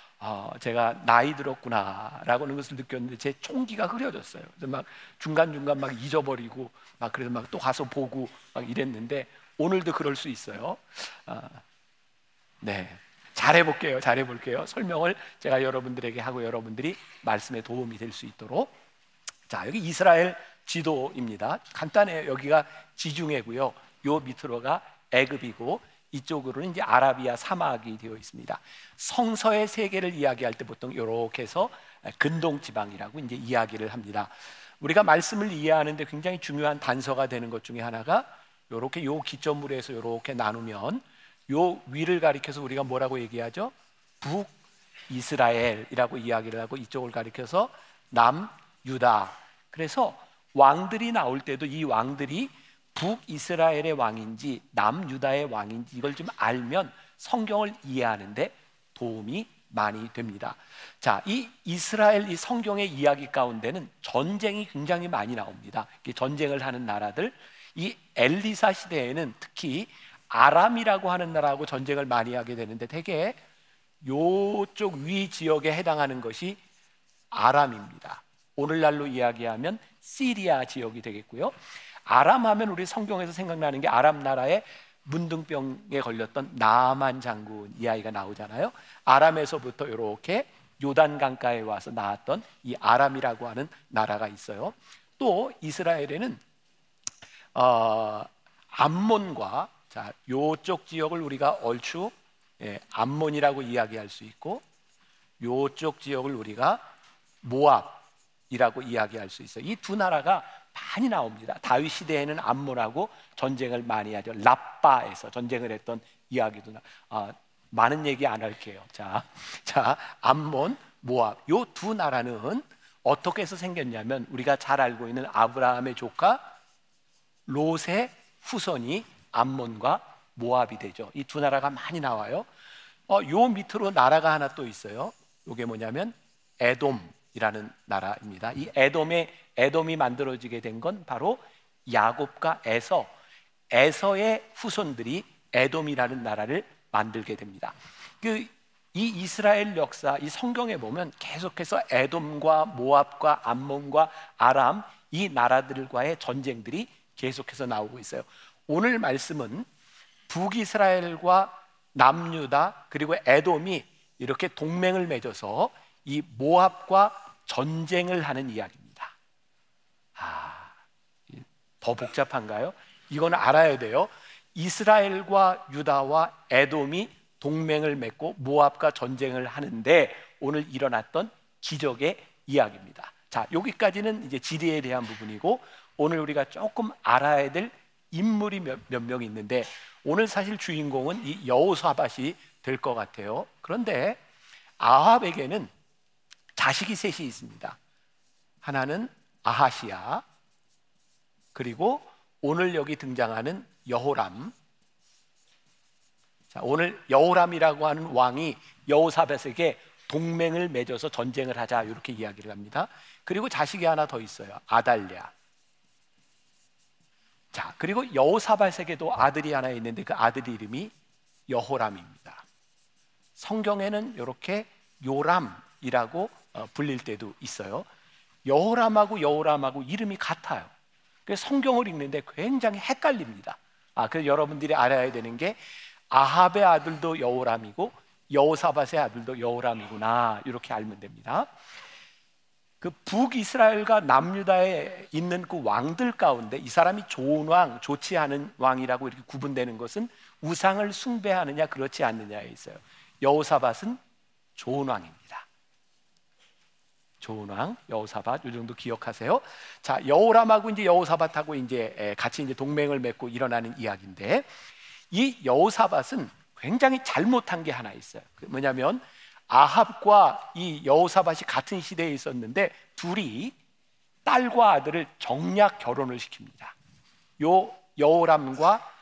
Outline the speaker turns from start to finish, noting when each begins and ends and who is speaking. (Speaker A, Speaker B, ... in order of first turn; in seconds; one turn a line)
Speaker A: 0.2-11.6
Speaker A: 12.6-18.7
Speaker A: 19.5-44.5
Speaker A: 45.1-73.4
Speaker A: 74.0-76.6
Speaker A: 77.3-81.5
Speaker A: 82.0-96.4
Speaker A: 97.5-104.6
Speaker A: 105.4-106.8
Speaker A: 107.4-126.4
Speaker A: 127.5-132.5
Speaker A: 133.1-143.1
Speaker A: 143.7-159.7
Speaker A: 160.3-169.1
Speaker A: 170.2-170.7
Speaker A: 171.3-194.2
Speaker A: 194.8-195.7
Speaker A: 196.6-197.8
Speaker A: 198.6-200.2
Speaker A: 201.5-204.5
Speaker A: 206.5-215.3
Speaker A: 217.5-220.9
Speaker A: 221.5-222.4
Speaker A: 223.4-227.8
Speaker A: 228.4-230.7
Speaker A: 231.2-235.6
Speaker A: 236.1-241.5
Speaker A: 242.8-254.0
Speaker A: 254.6-255.5
Speaker A: 257.2-264.5
Speaker A: 265.1-273.5
Speaker A: 274.2-276.7
Speaker A: 277.4-278.8